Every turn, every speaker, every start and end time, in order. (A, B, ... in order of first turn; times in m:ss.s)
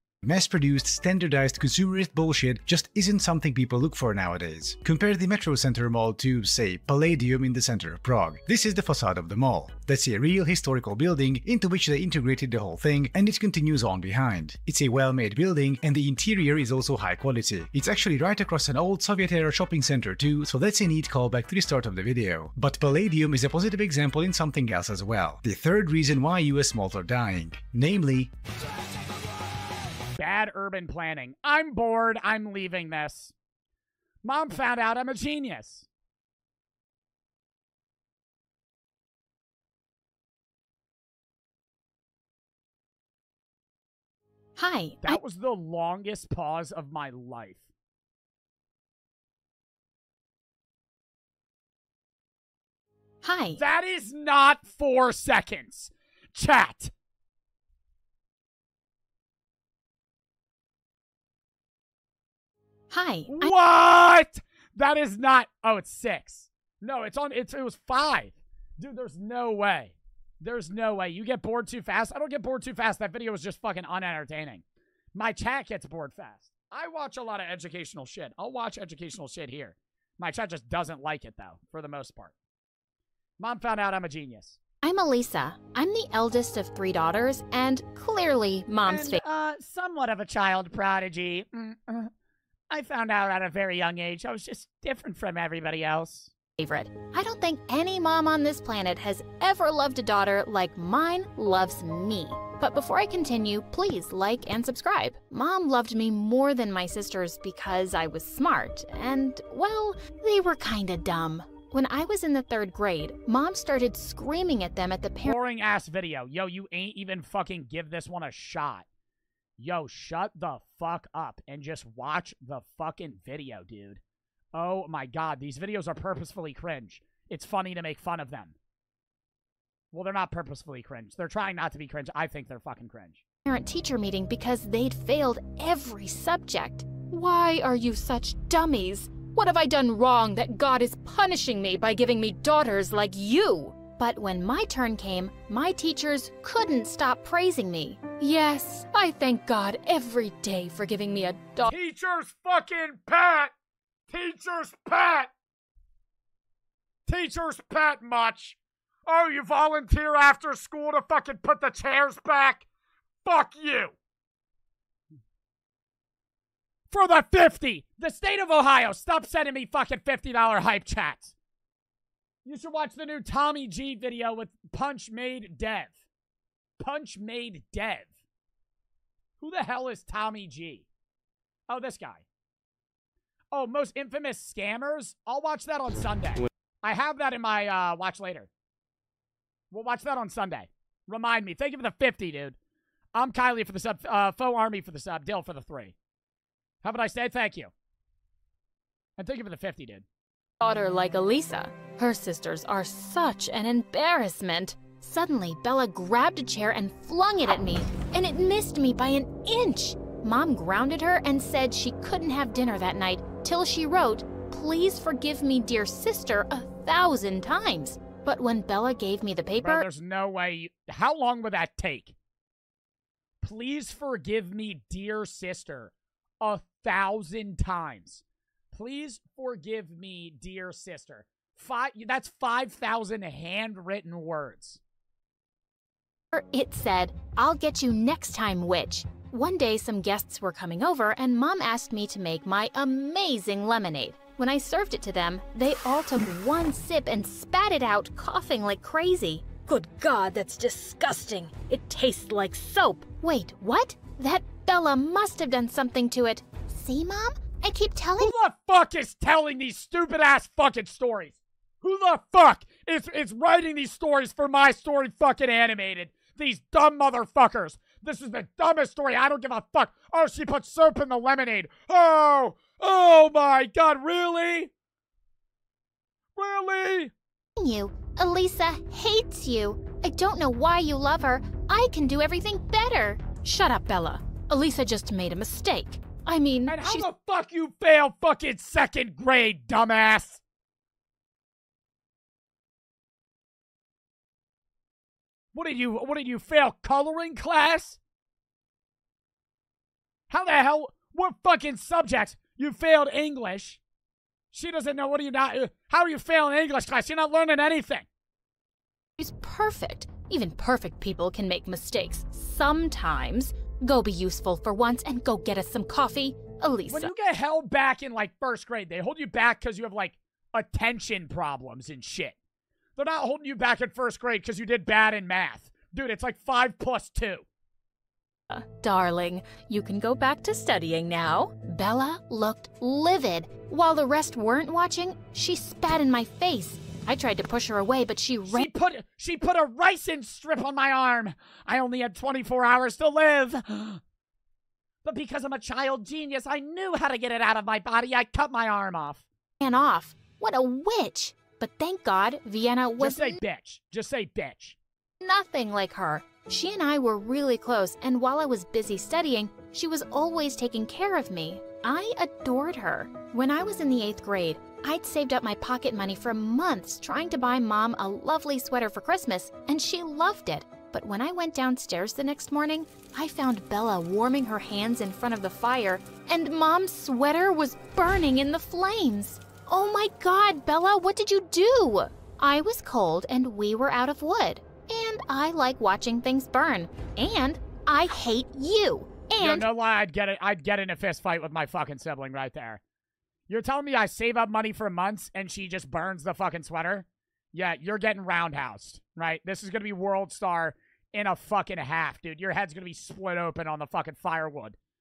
0:00.2-0:28.3 A
0:30.2-0:33.3 B
0:34.2-0:35.9 B
0:44.6-0:45.2 C
0:45.0-0:47.7 B
0:53.2-0:53.6 C
0:53.6-0:56.9 B
1:02.9-1:03.5 C
1:03.3-1:14.6 B
1:15.2-1:22.4 B
1:23.4-1:24.6 B
1:24.8-1:29.2 C
1:28.9-1:32.1 B
1:32.7-1:36.3 B
1:36.6-1:55.4 C
1:55.2-1:58.9 B
1:59.6-2:04.0 B
2:04.5-2:08.6 B
2:09.9-2:13.2 B
2:13.4-2:31.7 C
2:31.6-2:33.5 B
2:34.1-2:35.3 B
2:37.1-2:42.7 B
2:43.2-2:44.0 B
2:46.9-2:51.4 B
2:52.4-2:56.0 B
2:56.8-2:58.2 B
2:59.4-3:00.9 B
3:01.7-3:02.2 B
3:03.5-3:08.5 B
3:09.7-3:12.6 B
3:13.2-3:16.0 B
3:16.8-3:17.7 B
3:19.2-3:20.0 B
3:20.6-3:39.9 C
3:39.6-3:42.2 B
3:43.4-3:54.8 B
3:56.3-4:18.3 C
4:18.2-4:34.7 B
4:36.4-4:37.1 B
4:37.6-4:47.1 C
4:46.7-4:50.4 B
4:55.5-4:58.0 B
5:00.3-5:03.8 B
5:04.5-5:08.1 B
5:09.2-5:17.1 C
5:16.9-5:22.4 B
5:23.0-5:27.4 B
5:28.5-5:38.7 C
5:38.5-5:44.0 B
5:45.0-5:49.2 B
5:49.6-5:53.4 C
5:53.0-5:54.8 B
5:55.2-6:29.7 C
6:29.4-6:32.8 B
6:33.5-6:44.8 B